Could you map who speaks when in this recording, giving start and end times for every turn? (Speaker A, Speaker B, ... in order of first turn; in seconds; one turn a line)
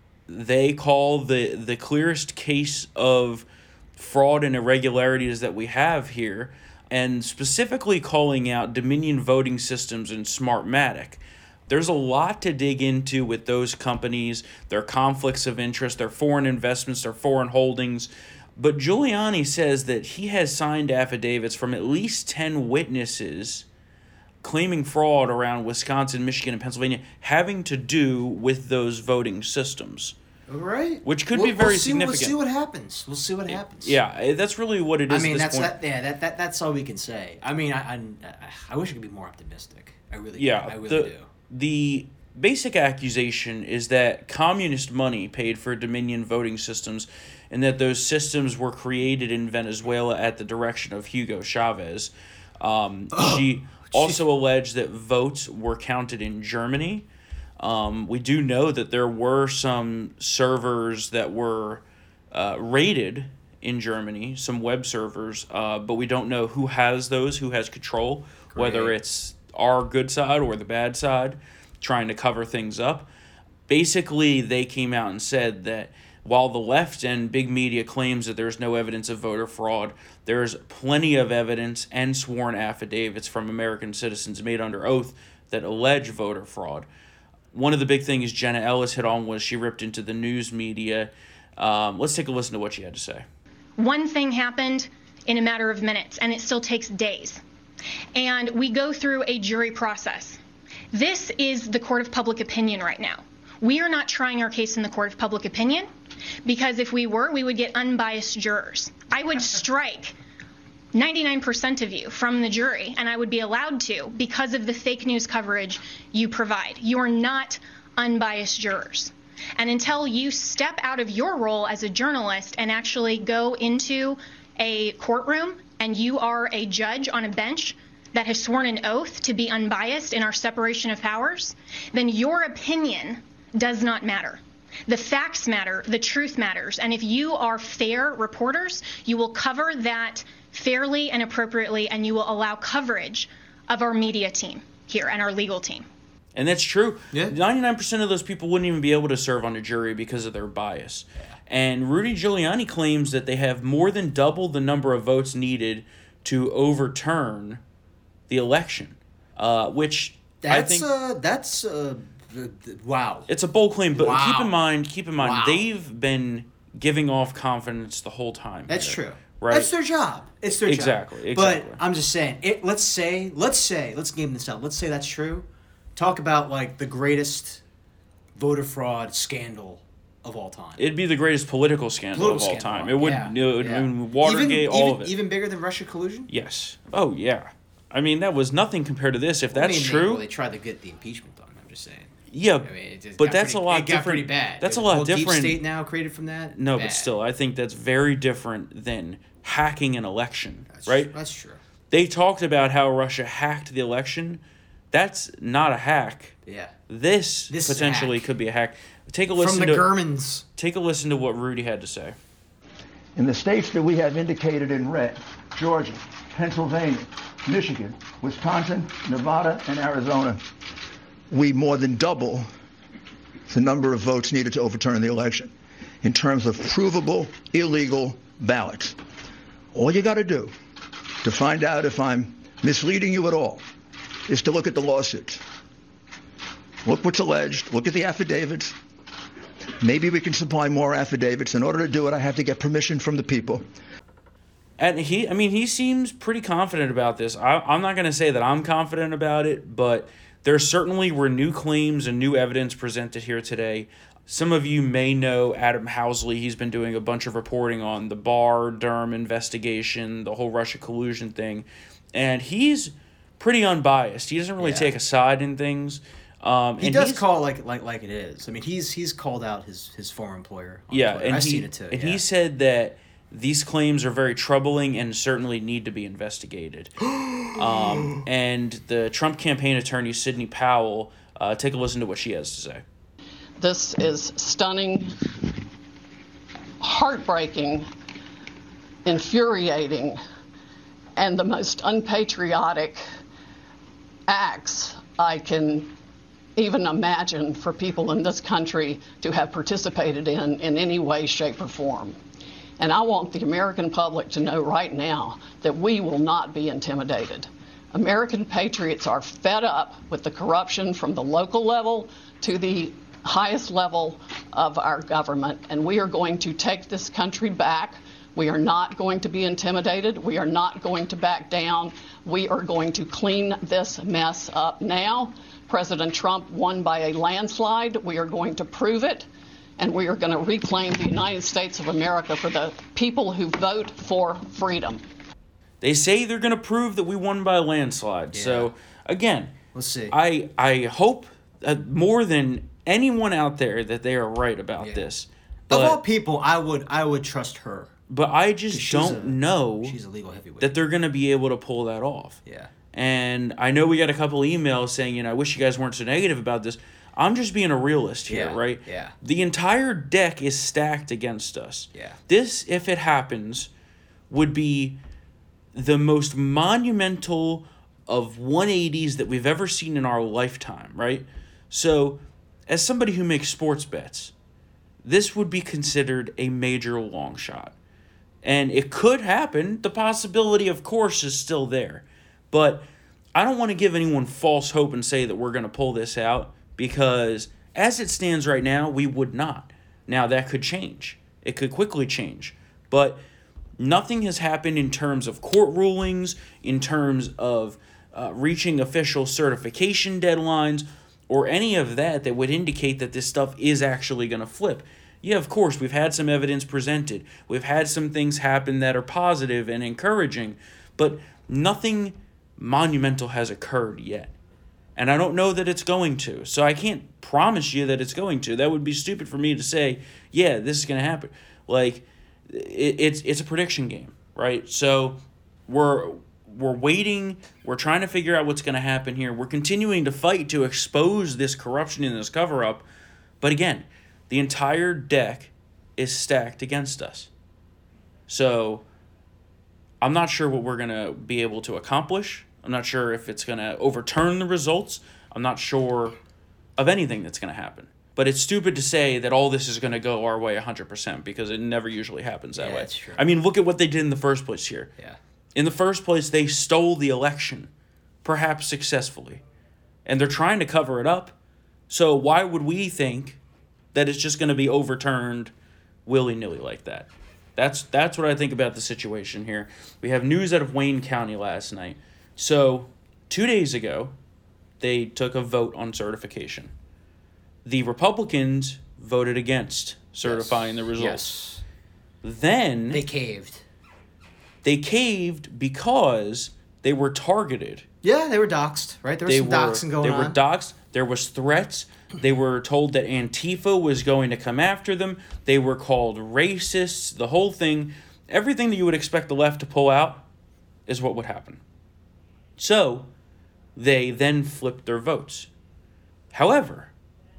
Speaker A: 0.3-23.7
Speaker A: 24.4-30.1
Speaker B: 30.5-34.0
Speaker A: 31.0-32.4
Speaker A: 33.5-35.8
Speaker B: 35.1-41.3
Speaker A: 40.4-57.1
Speaker B: 53.1-54.2
Speaker A: 57.6-73.1
Speaker B: 68.5-69.0
Speaker A: 73.7-86.9
Speaker A: 87.5-93.2
Speaker C: 93.8-97.4
Speaker C: 98.2-100.4
Speaker C: 100.9-105.9
Speaker C: 106.5-110.1
Speaker C: 110.9-145.8
Speaker A: 146.3-157.6
Speaker A: 158.3-160.9
Speaker B: 160.4-163.3
Speaker A: 163.3-169.7
Speaker B: 163.9-164.6
Speaker B: 165.2-165.7
Speaker B: 168.7-177.6
Speaker A: 170.5-171.8
Speaker B: 178.4-180.8
Speaker A: 180.8-185.1
Speaker B: 182.1-186.3
Speaker A: 186.3-190.2
Speaker B: 189.5-192.1
Speaker A: 192.3-195.6
Speaker B: 192.6-197.1
Speaker A: 196.5-201.1
Speaker B: 200.7-201.6
Speaker A: 201.9-206.4
Speaker B: 206.5-206.7
Speaker A: 206.9-209.9
Speaker B: 207.5-208.2
Speaker B: 209.4-210.4
Speaker A: 210.6-212.2
Speaker D: 213.2-220.4
Speaker D: 221.3-222.5
Speaker D: 223.5-229.0
Speaker D: 229.7-230.5
Speaker D: 231.2-233.6
Speaker D: 234.3-235.4
Speaker D: 236.8-238.7
Speaker D: 239.8-243.7
Speaker A: 244.8-267.2
Speaker B: 264.6-264.9
Speaker B: 266.8-272.2
Speaker A: 270.9-282.8
Speaker E: 283.6-285.1
Speaker E: 286.8-287.9
Speaker E: 289.1-290.2
Speaker E: 291.2-293.0
Speaker E: 294.3-295.9
Speaker E: 296.6-302.2
Speaker E: 302.8-329.3
Speaker E: 329.8-335.0
Speaker A: 335.8-339.6
Speaker B: 338.3-338.7
Speaker B: 339.7-340.1
Speaker A: 340.1-346.0
Speaker B: 345.7-347.9
Speaker A: 348.1-350.0
Speaker B: 348.7-350.8
Speaker A: 350.6-352.4
Speaker A: 352.9-363.7
Speaker B: 358.3-359.1
Speaker A: 364.3-365.0
Speaker A: 365.7-374.3
Speaker A: 375.0-377.7
Speaker A: 378.4-393.2
Speaker A: 393.8-414.3
Speaker A: 415.0-432.8
Speaker A: 433.4-437.3
Speaker A: 438.3-438.8
Speaker A: 440.0-446.2
Speaker A: 446.8-454.9
Speaker B: 452.6-453.2
Speaker A: 455.6-457.7
Speaker A: 458.2-459.4
Speaker A: 460.1-461.3
Speaker A: 461.9-463.4
Speaker A: 463.9-465.5
Speaker A: 466.1-474.1
Speaker A: 474.8-476.7
Speaker A: 477.6-481.3
Speaker B: 480.2-481.6
Speaker A: 482.2-483.0
Speaker B: 482.9-483.6
Speaker A: 484.6-487.9
Speaker B: 488.0-490.4
Speaker A: 489.3-500.3
Speaker A: 500.9-501.6
Speaker A: 502.6-503.1
Speaker A: 503.8-505.5
Speaker A: 506.3-506.9